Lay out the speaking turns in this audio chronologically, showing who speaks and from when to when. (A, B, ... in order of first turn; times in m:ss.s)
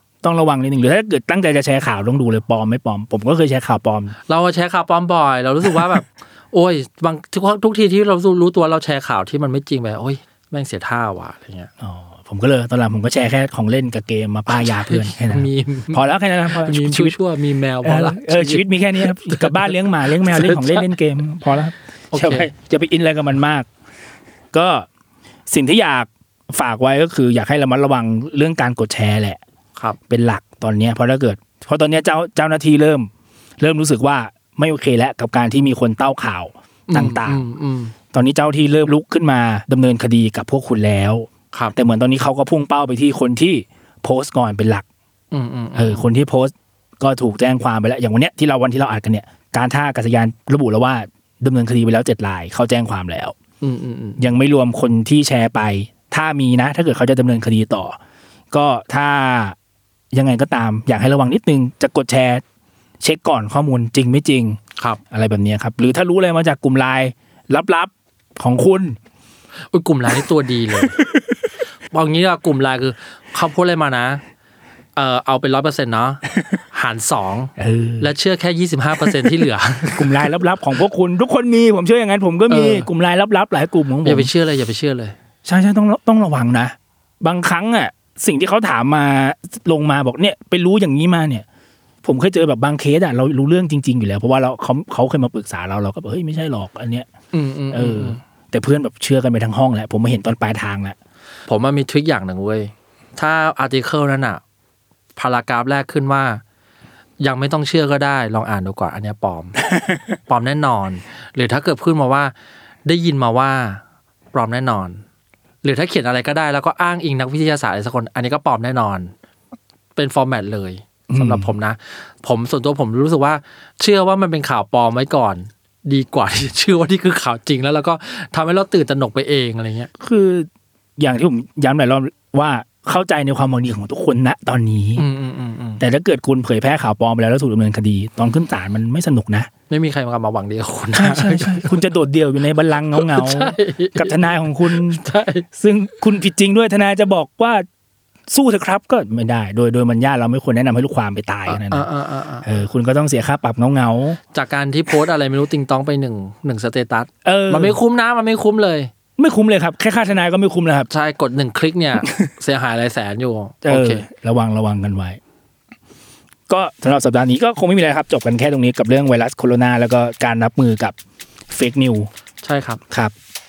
0:00.2-0:04.1 A
0:04.3-0:11.7 B
0:11.8-0:17.2 A
0:14.5-0:20.9 B
0:17.8-0:23.7 A
0:22.1-0:22.5 B
0:24.5-0:24.9 A
0:25.5-0:29.4 A
0:30.1-0:37.4 A
0:36.9-0:38.0 B
0:38.1-0:44.9 A
0:45.3-0:46.1 B
0:45.8-0:53.4 A
0:53.6-0:54.3 B
0:54.2-0:58.0 A
0:58.5-0:59.6 A
1:00.1-1:02.4 A
1:03.0-1:09.0 A
1:09.7-1:11.0 B
1:10.9-1:11.2 A
1:11.9-1:14.2 B
1:15.0-1:20.2 B
1:17.6-1:18.1 A
1:19.0-1:24.3 A
1:22.5-1:22.9 B
1:24.0-1:25.1 B
1:25.4-1:31.4 A
1:32.0-1:37.1 A
1:37.3-1:38.2 B
1:37.7-1:41.0 A
1:41.5-1:44.4 B
1:45.2-1:46.4 B
1:47.2-1:49.6 B
1:50.3-1:52.3 B
1:52.9-1:53.8 B
1:54.3-1:55.0 B
1:55.6-1:59.1 B
2:00.0-2:09.9 B
2:01.1-2:01.5 A
2:10.0-2:15.0 A
2:15.0-2:15.8 B
2:15.8-2:19.5 A
2:19.7-2:21.8 B
2:20.9-2:27.6 A
2:22.9-2:25.4 B
2:28.3-2:31.9 A
2:31.5-2:32.5 B
2:32.4-2:34.2 A
2:34.3-2:38.9 B
2:37.2-2:37.8 A
2:39.2-2:40.9 A
2:40.9-2:44.1 B
2:43.6-2:45.2 A
2:46.5-2:51.0 A
2:51.5-2:52.1 A
2:52.4-2:52.8 B